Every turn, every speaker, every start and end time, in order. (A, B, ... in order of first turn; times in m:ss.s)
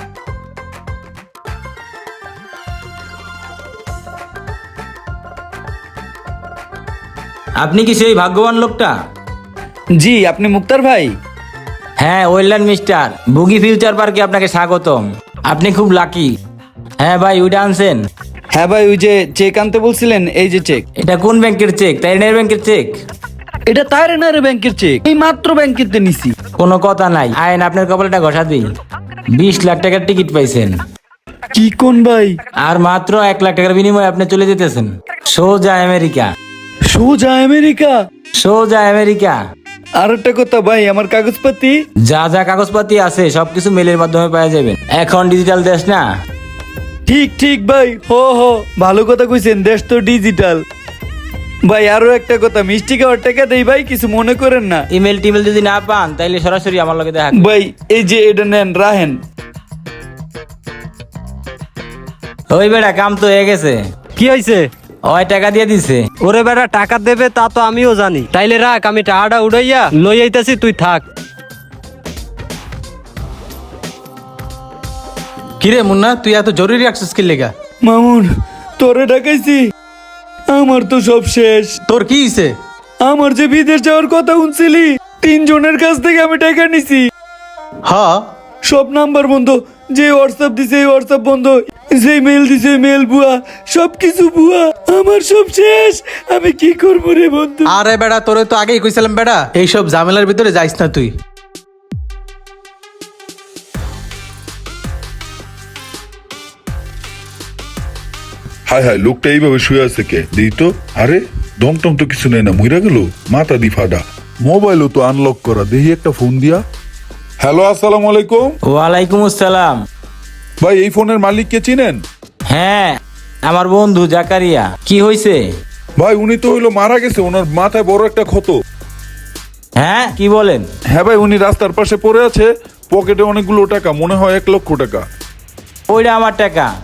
0:07.6-0:08.9 A
0:10.0-0:11.1 B
0:12.0-0:16.3 A
0:17.0-0:18.0 A
0:18.5-0:20.8 B
0:21.0-0:23.0 A
0:23.7-0:26.3 B
0:26.6-0:28.6 A
0:29.3-0:30.7 A
0:31.5-0:32.4 B
0:32.6-0:36.3 A
0:36.9-0:38.0 B
0:38.4-0:39.4 A
0:40.0-0:41.8 B
0:42.1-0:46.0 A
0:47.0-0:50.6 B
0:51.6-0:54.8 B
0:54.9-0:57.5 A
0:57.3-0:59.2 B
1:02.5-1:03.8 A
1:04.2-1:04.7 C
1:05.0-1:06.1 A
1:06.1-1:11.0 C
1:15.6-1:17.5 D
1:17.8-1:19.6 B
1:20.5-1:21.8 B
1:21.9-1:22.6 D
1:23.0-1:27.0 B
1:27.8-1:28.3 D
1:28.6-1:37.7 B
1:37.6-1:41.1 D
1:48.7-1:56.6 E
1:57.4-1:58.5 E
1:58.7-1:59.8 A
2:00.6-2:02.0 E
2:02.5-2:05.4 A
2:06.0-2:08.6 E
2:09.8-2:10.7 A
2:10.9-2:15.0 E
2:15.9-2:16.7 A